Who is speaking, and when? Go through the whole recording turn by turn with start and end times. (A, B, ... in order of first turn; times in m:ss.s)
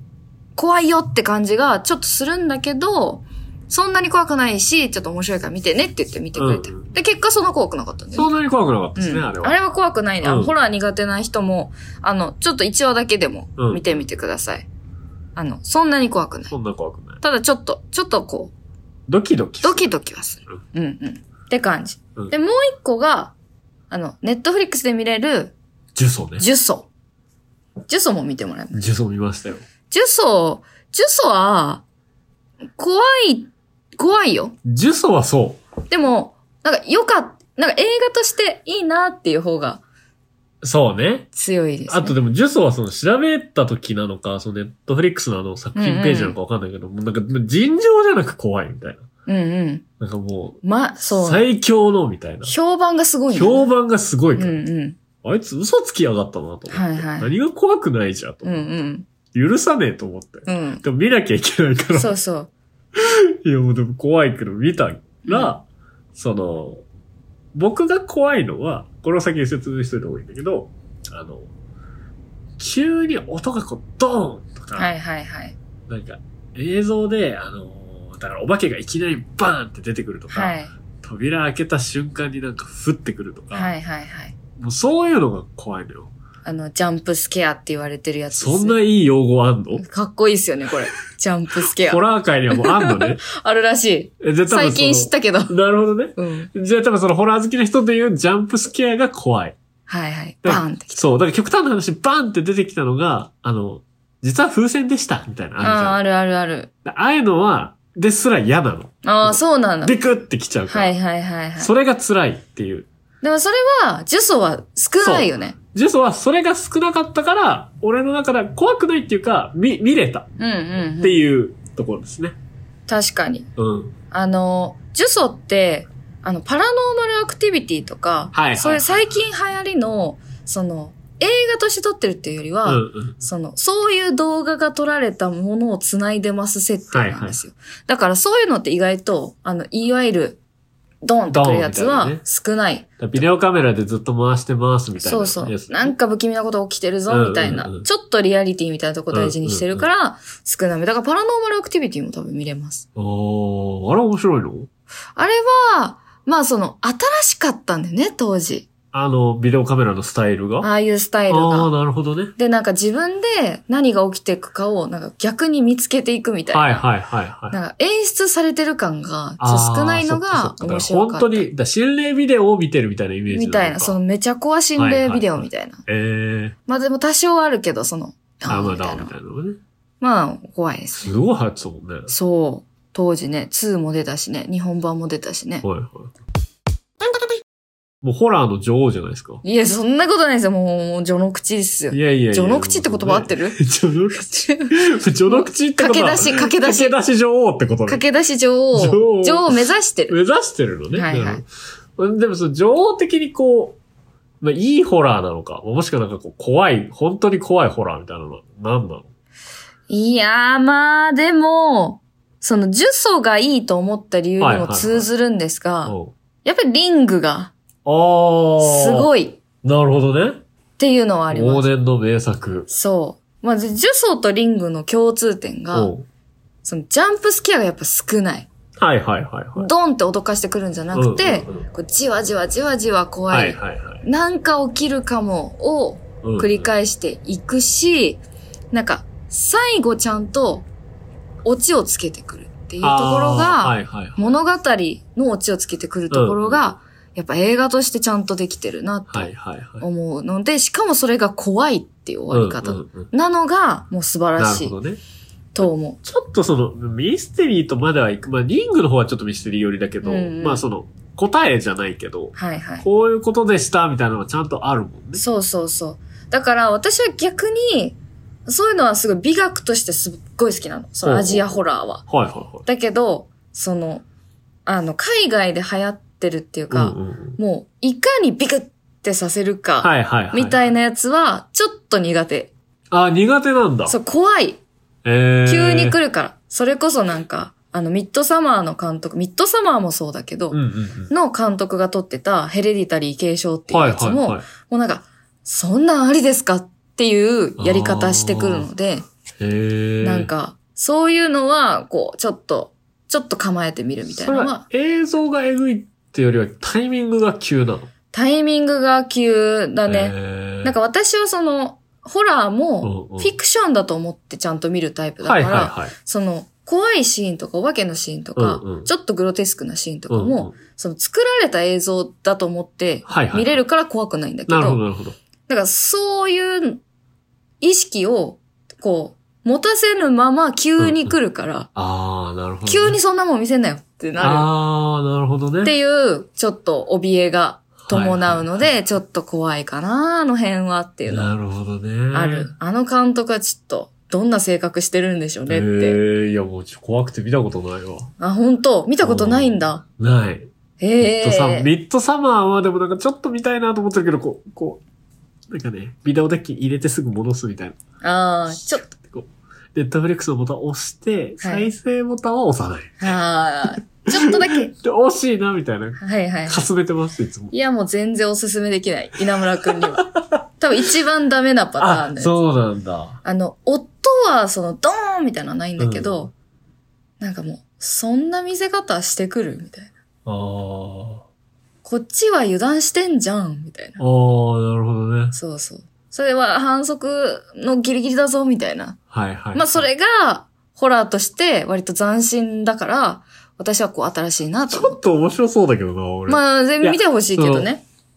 0:00.6-0:08.3 A
0:06.3-0:06.9 B
0:08.1-0:09.6 B
0:09.0-0:14.7 A
0:10.2-0:10.5 B
0:13.6-0:14.0 B
0:15.4-0:16.5 A
0:16.5-0:17.2 B
0:17.2-0:18.5 A
0:19.1-0:19.9 B
0:19.6-0:23.3 A
0:23.9-0:25.5 A
0:25.9-0:26.4 B
0:26.4-0:26.9 A
0:27.9-0:28.8 A
0:28.7-0:29.6 B
0:29.9-0:31.8 A
0:32.8-0:34.6 A
0:34.6-0:35.6 B
0:35.9-0:39.8 A
0:40.6-0:41.3 B
0:41.3-0:42.2 A
0:41.9-0:49.0 B
0:45.7-0:46.4 A
0:49.3-0:49.8 A
0:50.0-0:52.5 B
0:50.6-0:51.4 A
0:52.4-0:53.7 A
0:53.3-0:54.6 B
0:54.4-0:55.0 A
0:55.2-0:58.6 B
0:56.7-0:57.3 A
0:58.4-0:59.1 A
0:59.3-1:02.1 B
1:00.5-1:00.8 A
1:01.9-1:02.5 A
1:02.9-1:06.8 B
1:05.2-1:05.6 A
1:07.5-1:11.5 B
1:12.6-1:14.9 B
1:14.8-1:15.6 A
1:15.9-1:23.7 B
1:20.3-1:20.7 A
1:23.5-1:24.4 A
1:24.6-1:26.1 B
1:26.4-1:28.8 A
1:28.3-1:29.8 B
1:29.8-1:35.5 A
1:31.6-1:33.2 B
1:34.2-1:39.6 B
1:36.2-1:36.5 A
1:39.9-1:41.0 A
1:40.4-1:46.0 B
1:45.6-1:46.7 A
1:46.8-1:50.9 B
1:49.0-1:50.0 A
1:50.7-1:51.7 A
1:51.6-1:52.9 B
1:53.2-1:55.6 A
1:55.0-2:00.3 B
2:00.4-2:01.2 A
2:01.0-2:02.4 B
2:02.9-2:03.5 A
2:03.6-2:04.0 B
2:04.1-2:20.4 A
2:08.3-2:09.1 B
2:12.6-2:13.2 B
2:16.9-2:17.4 B
2:21.0-2:22.9 A
2:21.3-2:22.2 B
2:23.0-2:25.9 B
2:25.0-2:32.8 A
2:27.1-2:27.9 B
2:29.1-2:29.9 B
2:33.0-2:34.7 B
2:35.2-2:38.7 A
2:38.9-2:40.7 B
2:40.6-2:41.7 A
2:41.3-2:42.3 B
2:42.4-2:46.8 A
2:46.5-2:47.6 B
2:47.5-2:51.5 A
2:49.4-2:53.9 B
2:53.3-2:55.8 A
2:54.8-2:56.6 B
2:56.7-2:59.1 A
2:58.5-2:59.6 B
3:00.0-3:01.1 A
3:01.0-3:02.1 B
3:02.1-3:05.6 A
3:05.6-3:06.1 B
3:08.0-3:09.4 B
3:09.4-3:13.6 A
3:11.9-3:18.0 B
3:14.1-3:14.8 A
3:15.3-3:17.0 A
3:17.9-3:20.2 A
3:18.7-3:21.4 B
3:20.9-3:21.4 A
3:22.0-3:23.8 B
3:24.4-3:29.1 B
3:29.9-3:37.5 A
3:34.4-3:35.1 B
3:35.8-3:36.1 B
3:37.8-3:39.1 B
3:38.6-3:39.4 A
3:39.6-3:40.4 B
3:40.8-3:41.7 A
3:41.3-3:42.7 B
3:42.7-3:45.9 A
3:45.7-3:46.1 B
3:46.6-3:48.5 A
3:48.8-3:49.7 B
3:49.6-4:00.7 A
3:50.9-3:51.6 B
3:53.3-3:54.0 B
3:56.2-3:56.7 B
4:01.4-4:14.7 A
4:02.8-4:04.2 B
4:06.1-4:06.7 B
4:09.1-4:09.8 B
4:12.3-4:13.1 B
4:14.4-4:15.0 B
4:15.5-4:16.0 A
4:15.6-4:25.2 B
4:20.0-4:20.6 A
4:22.3-4:22.8 A
4:25.2-4:32.0 A
4:31.0-4:31.6 B
4:32.1-4:32.6 B
4:32.6-4:34.0 A
4:34.6-4:42.5 A
4:36.7-4:37.4 B
4:39.8-4:40.6 B
4:42.9-4:44.0 B
4:43.9-4:44.6 A
4:45.0-4:46.0 B
4:45.4-4:50.6 A
4:50.5-4:51.1 B
4:51.1-4:59.1 A
4:53.7-4:54.4 B
4:57.6-4:58.7 B
4:59.4-5:00.3 B
5:00.0-5:04.6 A
5:04.1-5:07.9 B
5:08.1-5:24.8 A
5:09.9-5:10.7 B
5:12.8-5:13.4 B
5:15.2-5:15.9 B
5:18.3-5:18.9 B
5:20.1-5:20.5 B
5:23.1-5:23.6 B
5:24.5-5:25.2 B
5:25.5-5:26.8 A
5:27.6-5:31.7 A
5:30.8-5:31.1 B
5:31.8-5:33.0 B
5:32.6-5:34.5 A
5:34.2-5:35.7 B
5:35.6-5:41.3 A
5:37.8-5:38.6 B
5:41.0-5:42.5 B
5:42.1-5:46.0 A
5:45.5-5:48.1 B
5:48.2-5:49.8 A
5:49.0-5:50.5 B
5:50.8-5:51.7 A
5:51.0-5:54.8 B
5:55.5-5:57.8 B
5:58.0-5:58.8 A
5:58.5-6:03.1 B
6:01.4-6:01.7 A
6:03.0-6:04.7 A
6:04.1-6:07.5 B
6:06.0-6:06.7 A
6:07.5-6:12.3 A
6:09.7-6:10.2 B
6:11.8-6:13.2 B
6:13.2-6:16.3 A
6:15.8-6:16.2 B
6:17.2-6:19.9 A
6:20.2-6:21.2 B
6:21.8-6:24.0 A
6:24.0-6:25.4 B
6:25.3-6:29.0 A
6:29.1-6:29.8 B
6:29.5-6:35.0 A
6:34.7-6:37.7 B
6:36.3-6:37.8 A